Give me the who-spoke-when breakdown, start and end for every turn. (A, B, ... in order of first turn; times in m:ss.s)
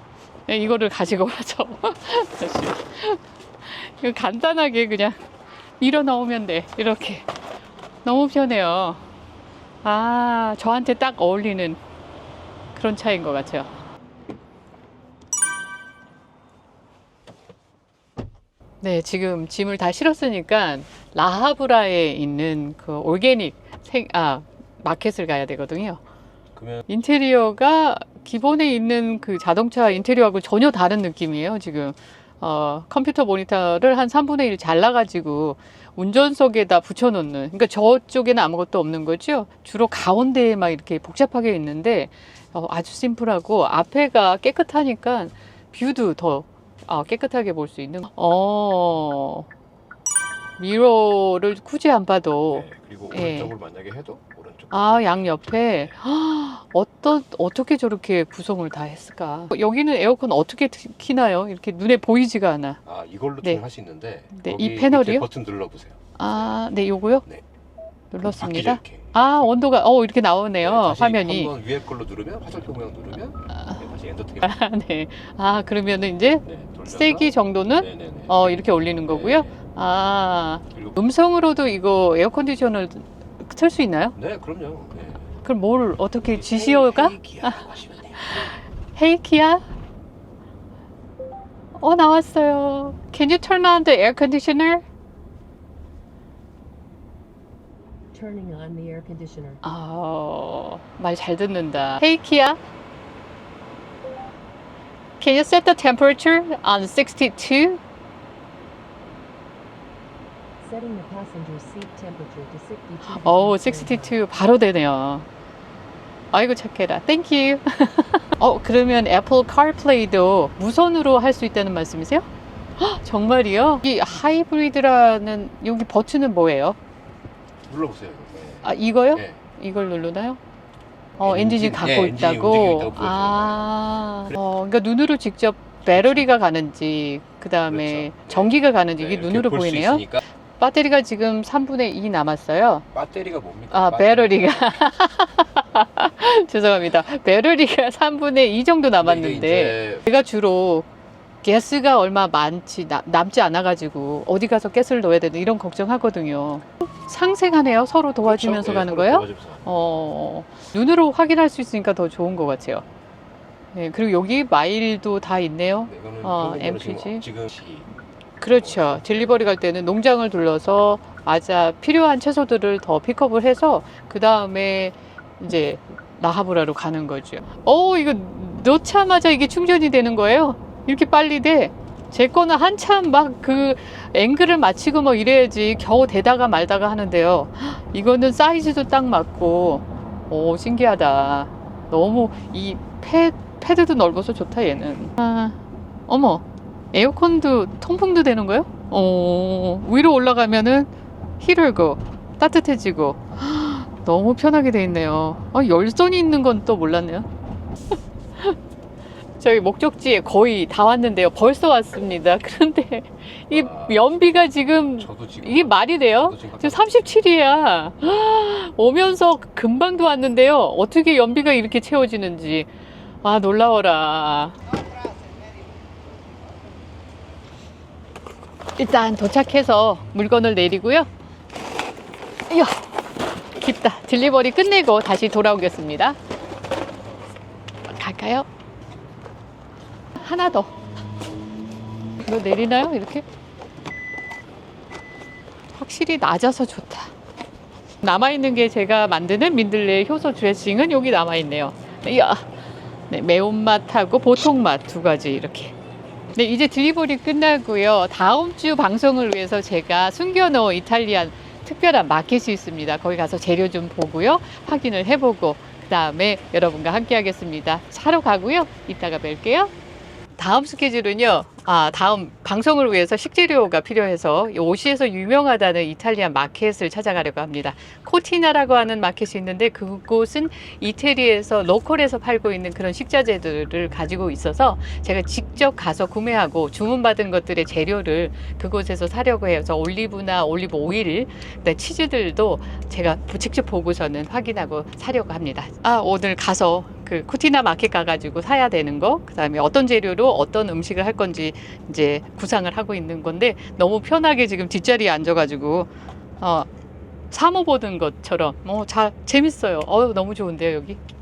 0:00.5-0:05.2 A
0:05.8-0:07.3 A
0:08.0-0:09.0 A
0:09.8-0:11.8 A
0:12.7-0:13.7 A
0:18.8-0:26.0 A
0:26.5-0:26.8 B
0:26.9-0:49.5 A
0:50.6-0:53.5 A
0:52.5-0:55.9 B
0:54.7-1:02.8 A
1:02.8-1:06.5 B
1:04.3-1:05.3 A
1:06.2-1:07.2 A
1:08.1-1:11.5 A
1:08.3-1:09.1 B
1:10.6-1:14.5 B
1:13.5-1:13.8 A
1:14.4-1:24.1 A
1:16.4-1:19.6 B
1:20.7-1:21.0 B
1:24.1-1:25.3 B
1:25.4-1:27.6 A
1:26.3-1:28.5 B
1:28.2-1:29.6 A
1:31.8-1:34.8 A
1:38.1-1:39.6 C
1:39.6-1:42.6 A
1:45.2-1:47.8 A
1:50.6-1:54.1 C
1:53.0-1:55.3 A
1:56.3-2:02.3 A
2:02.8-2:06.8 A
2:07.7-2:09.4 B
2:08.6-2:10.4 A
2:11.2-2:22.8 A
2:11.2-2:13.7 B
2:15.8-2:16.3 B
2:17.7-2:20.2 B
2:22.9-2:24.6 B
2:23.7-2:30.9 A
2:29.0-2:30.0 B
2:31.4-2:42.8 A
2:38.2-2:39.6 B
2:43.7-2:47.2 A
2:45.9-2:47.9 B
2:48.4-2:49.3 B
2:48.4-3:27.3 A
3:29.4-3:42.7 A
3:33.5-3:37.2 B
3:43.2-3:44.6 A
3:48.8-3:51.1 A
3:52.5-3:52.9 A
3:53.5-3:56.2 A
3:57.9-3:58.5 A
4:00.2-4:00.7 A
4:02.2-4:03.2 A
4:05.7-4:07.1 A
4:08.0-4:12.4 A
4:13.1-4:15.7 A
4:16.3-4:29.7 A
4:30.4-5:05.9 A
5:06.4-5:06.7 A
5:07.3-5:11.0 A